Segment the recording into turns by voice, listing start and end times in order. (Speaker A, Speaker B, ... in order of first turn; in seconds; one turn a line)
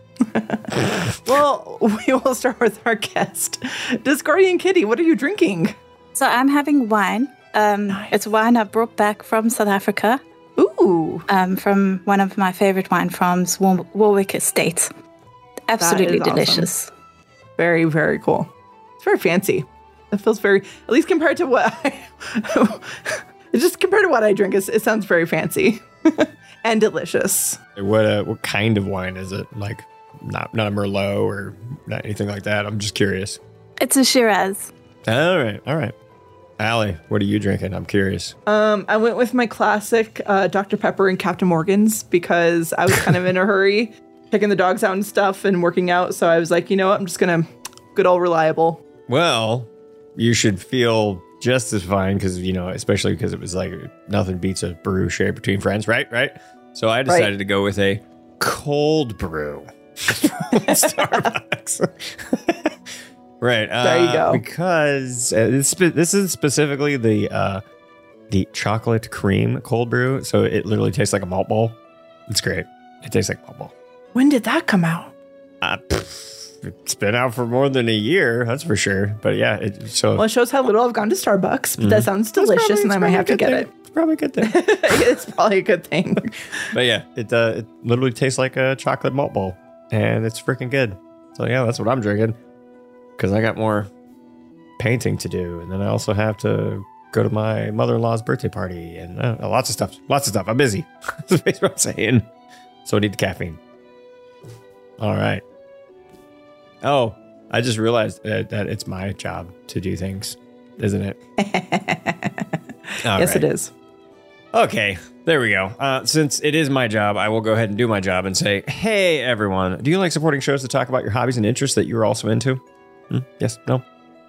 Speaker A: 0.3-5.8
Speaker B: 6.2-10.2
Speaker A: 10.6-11.2
Speaker B: 11.3-14.9
Speaker B: 15.7-16.9
Speaker A: 15.8-16.7
Speaker A: 17.6-27.6
Speaker C: 27.8-33.4
Speaker B: 33.8-34.7
Speaker C: 35.0-35.9
Speaker C: 36.6-38.3
Speaker A: 38.5-48.8
Speaker C: 49.1-62.7
Speaker C: 63.4-67.6
Speaker A: 63.8-64.4
Speaker C: 68.3-71.8
Speaker C: 72.3-73.7
Speaker A: 74.1-75.1
Speaker C: 75.6-80.2
Speaker A: 80.2-83.7
Speaker C: 81.8-85.1
Speaker A: 84.4-86.7
Speaker C: 86.7-92.4
Speaker C: 93.2-93.9
Speaker C: 94.8-102.3
Speaker C: 102.8-103.6
Speaker C: 105.0-105.4
Speaker C: 106.8-111.2
Speaker A: 111.4-112.4
Speaker C: 113.0-113.5
Speaker A: 113.1-113.7
Speaker C: 114.5-123.8